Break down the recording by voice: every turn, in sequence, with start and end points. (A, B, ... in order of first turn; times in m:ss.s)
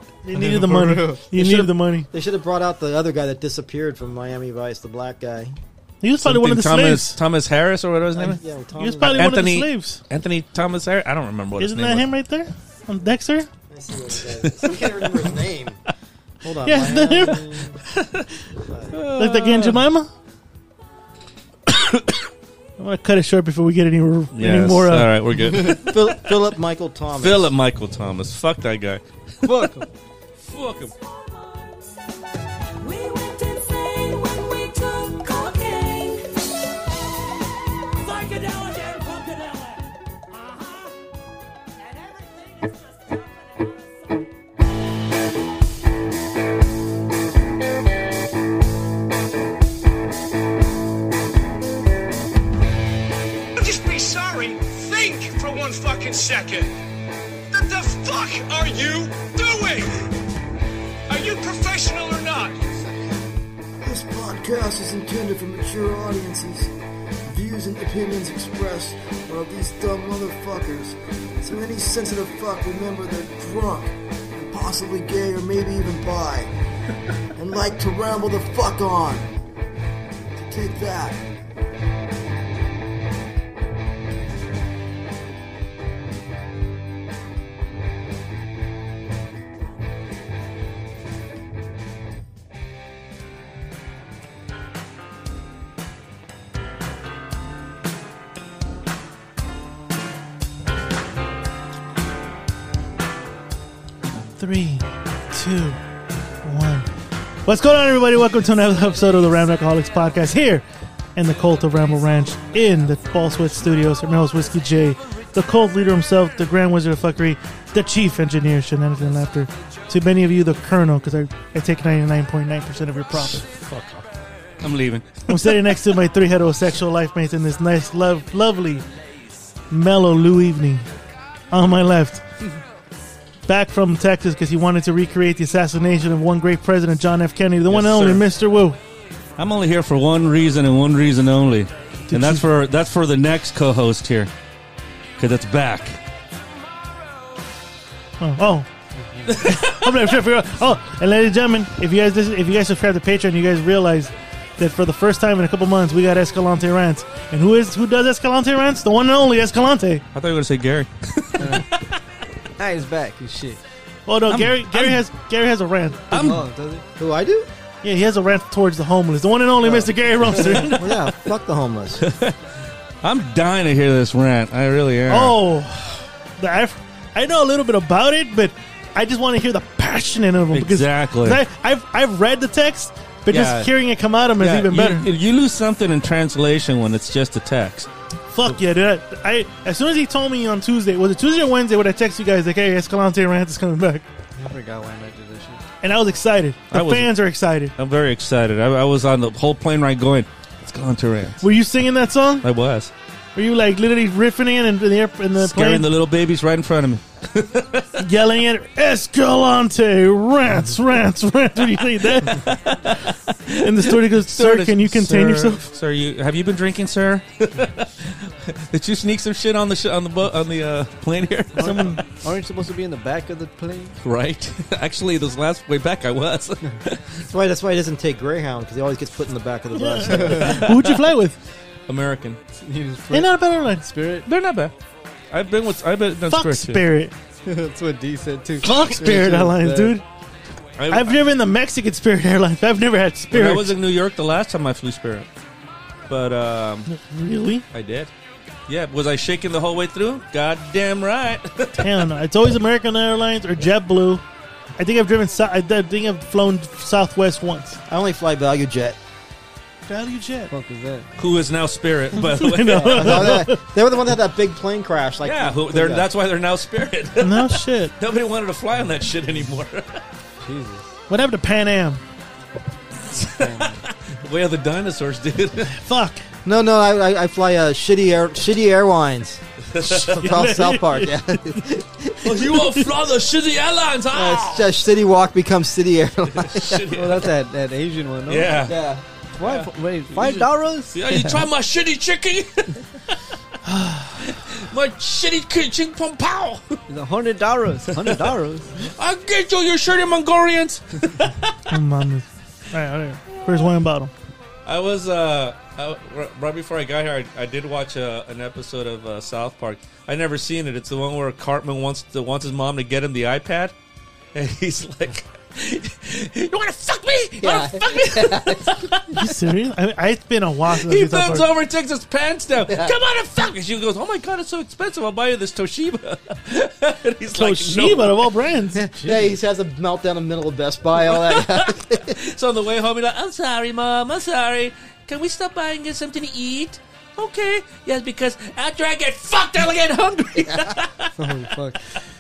0:00.2-0:02.1 A
0:00.3-0:01.2 B
0:01.3-0:05.6 C
0:06.0-0:07.2 A
0:06.2-0:08.4 D
0:08.1-0:09.4 C
0:08.8-0:10.0 A
0:09.0-0:12.1 D
0:11.6-0:13.5 A
0:13.7-0:15.8 C
0:14.4-0:14.9 D
0:16.4-0:17.8 C
0:16.6-0:17.5 A
0:18.0-0:18.2 D
0:18.7-0:19.0 C
0:18.9-0:19.8 D
0:19.1-0:20.1 A
0:21.7-0:22.1 D
0:22.8-0:25.1 A
0:24.3-0:26.1 D
0:25.5-0:27.5 C
0:27.2-0:29.7 D
0:29.4-0:29.9 B
0:30.4-0:30.9 D
0:32.8-0:36.2 E
0:38.0-0:39.8 E
0:53.6-0:56.7 F
0:57.5-1:00.0 F
1:01.1-1:02.7 F
1:03.9-1:06.6 G
1:07.3-1:10.9 G
1:11.5-1:16.5 G
1:17.4-1:19.2 G
1:20.4-1:21.1 G
1:44.4-1:45.8 A
1:46.4-1:46.9 A
1:47.4-1:50.6 A
1:51.2-2:03.4 A
2:03.1-2:04.1 D
2:04.6-2:05.5 D
2:05.3-2:08.8 A
2:09.7-2:10.8 A
2:11.5-2:12.2 A
2:13.5-2:18.8 A
2:17.7-2:18.2 D
2:19.4-2:24.3 D
2:22.1-2:22.5 A
2:25.2-2:26.0 D
2:28.2-2:28.7 A
2:29.0-2:29.4 B
2:29.3-2:30.0 D
2:29.4-2:40.0 A
2:40.1-2:41.9 D
2:41.4-2:41.7 B
2:42.6-2:43.6 B
2:44.1-2:46.0 A
2:44.3-2:45.0 D
2:46.1-2:46.4 D
2:46.1-2:46.8 B
2:47.0-2:47.5 C
2:47.8-2:50.9 A
2:49.6-2:50.6 B
2:50.8-2:52.0 C
2:52.0-2:52.4 D
2:53.0-2:55.4 D
2:55.1-3:05.0 A
3:00.5-3:01.4 D
3:03.3-3:03.7 D
3:04.4-3:07.9 D
3:08.3-3:14.0 A
3:14.4-3:15.6 B
3:15.8-3:17.7 A
3:16.7-3:17.1 D
3:17.8-3:21.4 D
3:21.4-3:22.4 A
3:22.4-3:22.9 D
3:23.3-3:25.8 A
3:25.4-3:28.0 D
3:28.0-3:32.5 A
3:32.0-3:41.9 D
3:33.6-3:35.7 A
3:41.6-3:43.9 B
3:41.6-3:42.0 A
3:44.0-3:47.2 D
3:47.3-3:50.6 C
3:49.7-3:51.4 A
3:50.1-3:50.7 B
3:51.9-3:52.4 D
3:52.6-3:54.3 B
3:53.1-3:53.9 A
3:54.2-3:54.7 D
3:55.3-3:56.8 D
3:56.3-3:57.1 A
3:57.4-4:00.0 B
3:58.6-4:00.0 A
4:00.8-4:01.2 D
4:00.9-4:03.7 A
4:03.3-4:05.3 D
4:06.1-4:06.9 D
4:06.9-4:07.6 A
4:07.7-4:08.1 D
4:08.7-4:12.0 D
4:11.8-4:14.2 A
4:14.8-4:17.8 A
4:17.9-4:19.0 C
4:19.9-4:20.5 A
4:20.5-4:21.1 B
4:21.2-4:23.3 D
4:22.2-4:23.6 A
4:22.6-4:26.1 C
4:25.2-4:30.0 D
4:27.2-4:27.9 A
4:30.4-4:30.9 B
4:31.1-4:32.0 A
4:33.1-4:35.7 D
4:33.2-4:33.8 B
4:35.7-4:36.2 A
4:36.4-4:42.4 C
4:39.7-4:40.4 D
4:40.2-4:41.7 A
4:42.2-4:44.7 D
4:42.4-4:42.7 A
4:44.1-4:46.9 C
4:46.3-4:47.3 D
4:46.9-4:48.6 B
4:48.3-4:48.8 D
4:48.6-4:49.0 C
4:49.4-4:51.4 B
4:49.4-4:53.2 D
4:53.6-4:54.3 A
4:54.2-4:56.8 D
4:56.9-4:58.7 B
4:58.0-4:58.3 D
4:58.8-5:01.5 D
5:01.7-5:04.1 A
5:04.6-5:13.7 D
5:14.3-5:19.0 D
5:17.4-5:19.0 C
5:19.1-5:21.5 A
5:20.7-5:28.3 D
5:22.7-5:23.0 C
5:27.3-5:28.8 A
5:28.8-5:29.3 B
5:28.9-5:32.2 C
5:31.1-5:41.5 D
5:40.5-5:40.7 C
5:41.2-5:41.8 B